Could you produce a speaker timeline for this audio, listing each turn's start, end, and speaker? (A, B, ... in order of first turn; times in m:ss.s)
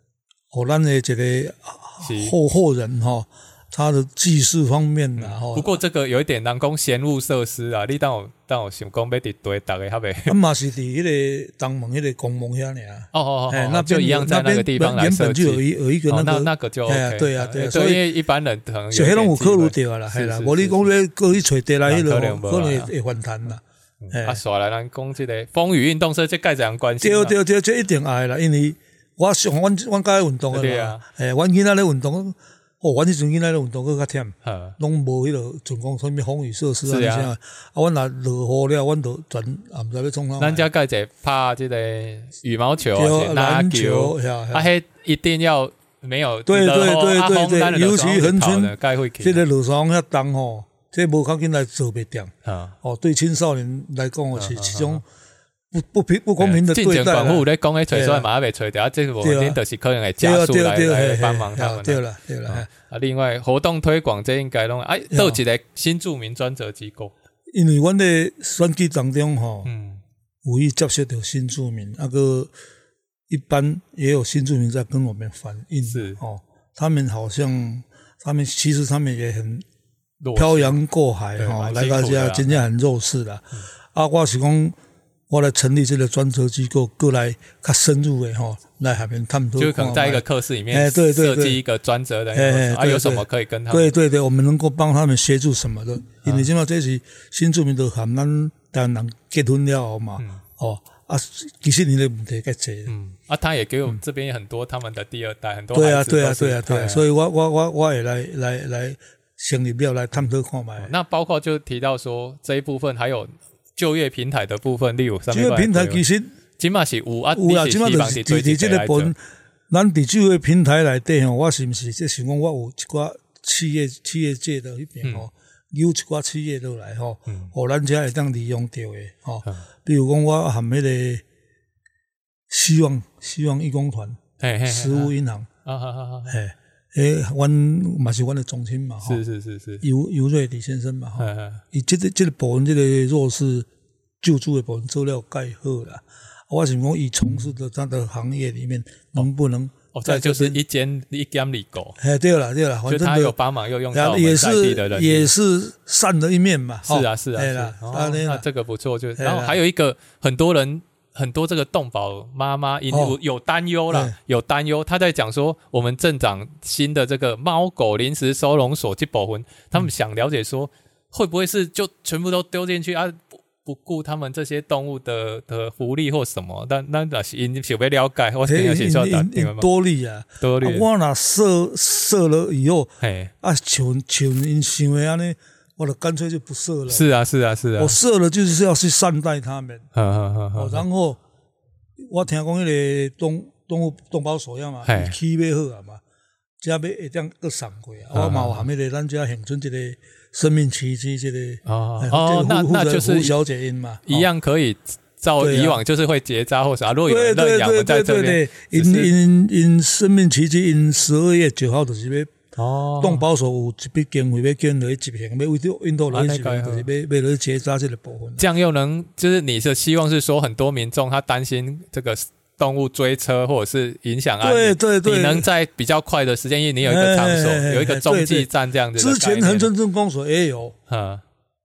0:00.5-0:05.7 A
0:02.0-0:02.4 B
0:05.2-0:10.4 B
0:10.3-0:18.0 A
0:13.1-0:20.9 B
0:18.9-0:24.4 A
0:21.8-0:22.9 B
0:24.0-0:27.3 B
0:27.0-0:40.7 A
0:30.5-0:31.0 B
0:34.4-0:34.8 B
0:36.8-0:37.3 B
0:40.4-0:49.4 B
0:42.9-0:44.7 A
0:46.5-0:55.0 A
0:52.4-0:52.7 B
0:54.4-0:55.0 B
0:55.7-0:58.3 A
0:56.4-1:07.1 B
0:59.2-0:59.6 A
1:00.2-1:02.7 A
1:05.1-1:05.4 A
1:07.5-1:09.7 A
1:09.6-1:10.0 B
1:10.4-1:12.5 A
1:13.3-1:19.6 A
1:15.8-1:16.2 B
1:20.2-1:20.7 B
1:20.4-1:24.8 A
1:21.4-1:22.6 B
1:25.3-1:31.6 A
1:29.6-1:33.9 B
1:32.3-1:42.9 A
1:42.9-1:47.0 B
1:45.7-1:50.9 A
1:50.8-1:56.0 B
1:55.3-1:56.3 A
1:56.6-1:59.1 B
1:57.3-1:59.2 A
1:59.7-2:11.2 A
2:07.3-2:07.5 B
2:12.5-2:15.5 A
2:14.4-2:15.1 B
2:15.6-2:16.4 B
2:16.3-2:19.2 A
2:19.0-2:19.8 B
2:19.8-2:23.7 A
2:21.2-2:21.6 B
2:24.2-2:30.6 A
2:29.9-2:32.0 B
2:32.0-2:33.4 A
2:32.9-2:35.3 B
2:33.9-2:38.4 A
2:36.8-2:59.7 B
2:39.2-2:39.6 A
2:42.9-2:43.2 A
2:43.9-2:44.2 A
2:58.4-3:07.0 A
3:00.4-3:00.9 B
3:03.0-3:03.3 B
3:06.9-3:08.0 B
3:07.8-3:09.9 A
3:09.9-3:10.8 B
3:10.5-3:11.2 A
3:12.0-3:16.0 A
3:14.8-3:15.2 B
3:16.6-3:24.3 A
3:18.1-3:18.7 B
3:21.6-3:23.3 B
3:24.1-3:29.1 B
3:25.4-3:25.8 A
3:27.1-3:32.3 A
3:32.6-3:33.2 B
3:33.0-3:38.4 A
3:36.1-3:36.9 B
3:38.4-3:49.7 B
3:44.4-3:45.5 A
3:46.8-3:50.7 A
3:50.9-3:51.2 B